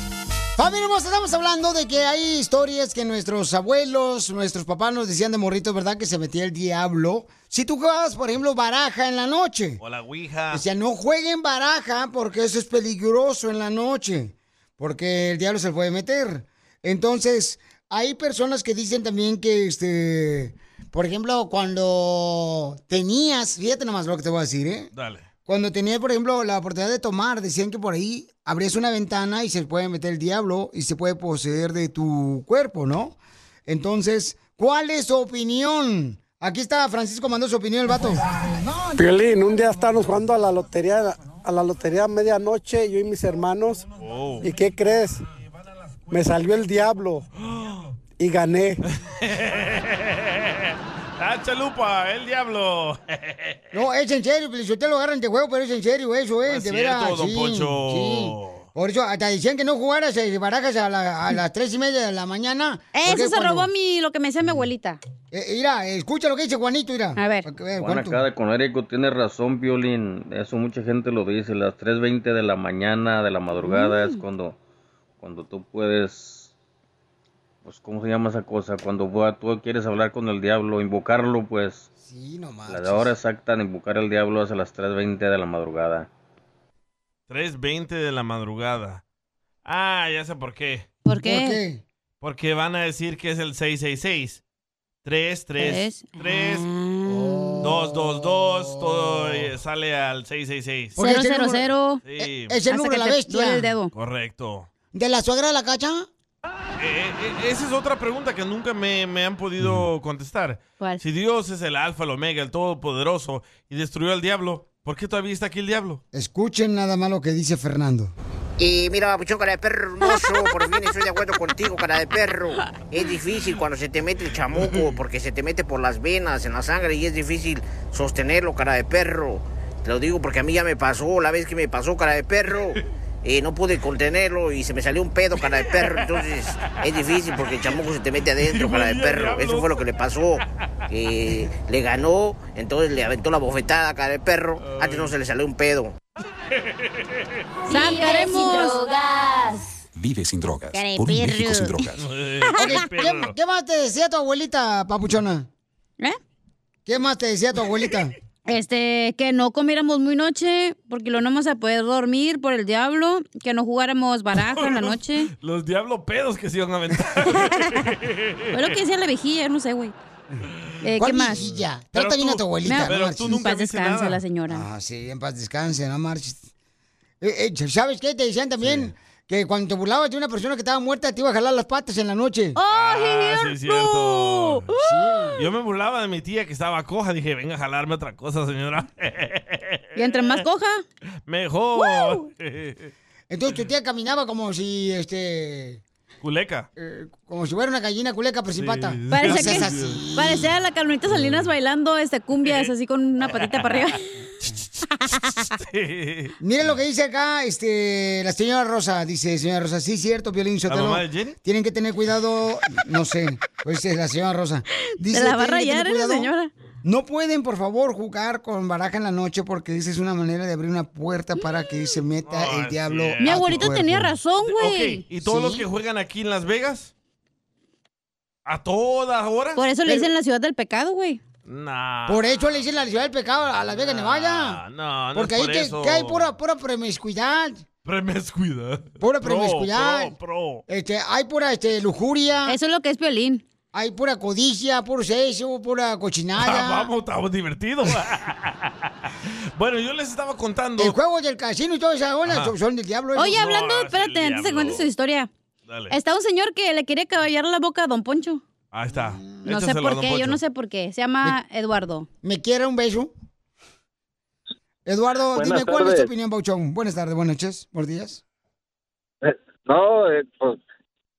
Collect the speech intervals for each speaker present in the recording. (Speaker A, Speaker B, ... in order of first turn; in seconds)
Speaker A: 0.6-9.8, 10.5-24.9, 25.4-39.0, 53.7-63.7, 65.3-68.2, 82.0-83.1, 91.2-91.8, 97.1-99.5, 101.0-101.7, 102.2-103.7, 104.9-106.1, 109.6-109.8, 116.1-118.1, 152.6-155.5, 156.8-158.1, 171.0-173.4, 174.5-176.5, 177.2-182.6, 184.8-185.4, 193.3-195.8, 196.8-200.5, 206.4-216.3, 216.8-224.1, 225.2-225.7, 229.8-230.1, 232.1-234.6, 235.1-237.6, 239.0-240.1, 240.7-242.6, 243.7-246.9, 250.8-253.4, 258.9-259.4, 262.2-263.1, 264.9-268.2
Speaker B: 9.8-10.6, 24.9-25.2, 44.0-44.5, 47.5-47.9, 49.0-53.6, 56.5-58.6, 87.3-89.0, 89.6-90.9, 92.2-94.4, 95.0-96.7, 97.6-101.0, 102.0-102.6, 103.9-104.7, 106.8-116.0, 124.5-124.9, 135.4-136.8, 138.4-139.8, 144.6-145.1, 151.9-153.3, 164.3-168.8, 171.3-174.2, 178.6-178.9, 182.7-184.7, 185.4-190.4, 191.3-192.9, 196.2-196.7, 198.6-200.0, 201.1-201.4, 202.4-202.7, 203.2-203.9, 204.4-204.7, 205.4-206.3, 210.7-211.3, 222.2-223.7, 224.4-226.9, 228.4-229.6, 231.4-232.6, 233.7-236.3, 237.8-240.6, 246.4-250.9, 252.2-252.5, 253.3-254.9, 255.7-255.9, 258.7-260.4
Speaker C: 39.0-43.8, 44.4-45.2, 46.1-47.2, 48.2-48.8
Speaker D: 62.9-65.0, 67.2-67.5, 73.6-74.2, 91.0-91.6, 95.6-97.6, 101.0-102.0, 102.7-103.9, 147.7-149.6, 150.7-151.7, 158.5-165.3, 167.3-167.8, 168.5-169.9, 170.8-171.4, 172.6-174.6, 182.6-185.4, 189.9-190.8, 191.8-192.2, 199.1-204.0, 215.1-216.5, 223.2-225.0, 229.6-231.2, 242.4-243.4, 253.2-255.3, 255.9-258.4, 259.4-262.1
Speaker E: 67.8-74.6, 75.2-76.5, 77.6-81.8, 82.7-86.1
Speaker F: 118.6-145.9
Speaker G: 150.0-152.0
Speaker H: 265.3-266.1, 269.2-270.6